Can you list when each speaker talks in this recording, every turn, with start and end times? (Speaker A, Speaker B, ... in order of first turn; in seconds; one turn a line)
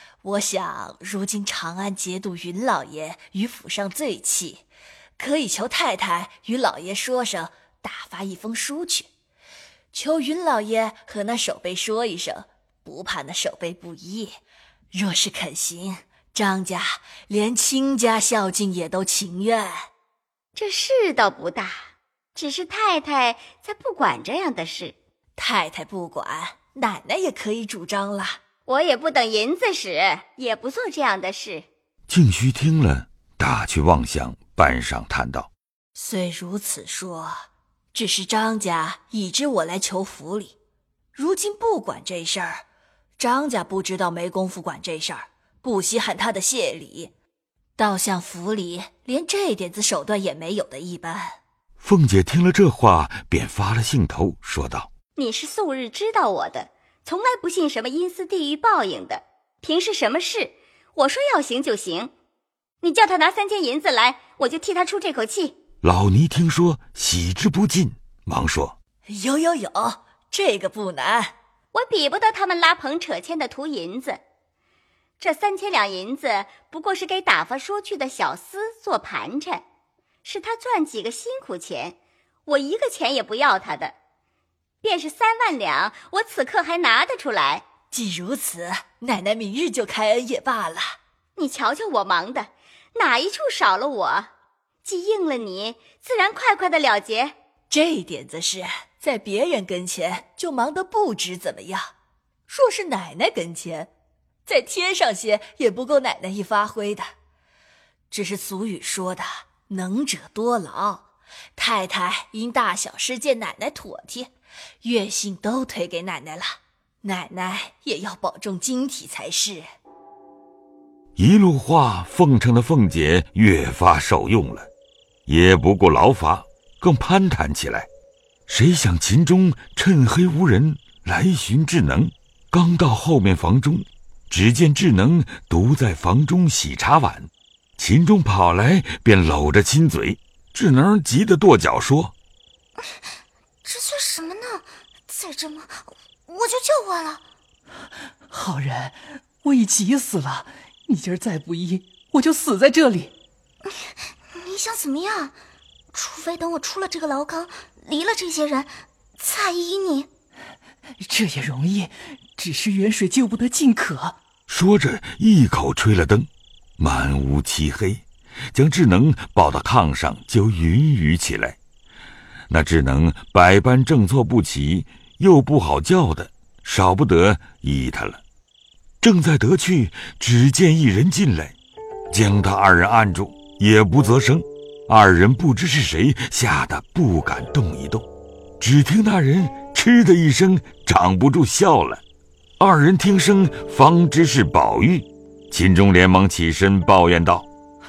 Speaker A: 0.2-4.7
Speaker A: 5.2-9.1
Speaker A: 9.9-14.3
Speaker A: 14.9-19.9
Speaker B: 20.6-24.9
Speaker A: 25.4-28.4
Speaker B: 28.7-31.7
Speaker C: 32.1-35.5
Speaker A: 36.0-37.4
Speaker A: 37.9-40.6
Speaker A: 41.1-42.6
Speaker A: 43.2-47.1
Speaker A: 47.8-51.4
Speaker C: 51.8-54.9
Speaker B: 55.2-62.1
Speaker B: 62.8-65.5
Speaker C: 65.8-68.8
Speaker A: 69.1-71.3
Speaker B: 71.7-74.2
Speaker B: 75.2-79.6
Speaker B: 80.2-84.0
Speaker B: 84.8-87.7
Speaker A: 87.9-90.9
Speaker B: 91.4-94.3
Speaker B: 94.8-97.3
Speaker A: 97.7-101.9
Speaker A: 102.5-103.9
Speaker A: 104.5-107.1
Speaker A: 108.1-114.3
Speaker A: 114.8-119.7
Speaker C: 121.2-124.7
Speaker C: 125.3-127.9
Speaker C: 128.5-142.1
Speaker D: 142.8-143.1
Speaker D: 143.7-147.2
Speaker E: 148.3-153.1
Speaker D: 153.7-155.3
Speaker D: 155.9-160.1
Speaker E: 161.0-164.2
Speaker C: 164.5-171.6
Speaker C: 172.5-178.2
Speaker C: 179.0-181.6
Speaker C: 182.1-188.1
Speaker C: 188.6-192.0
Speaker C: 192.6-197.5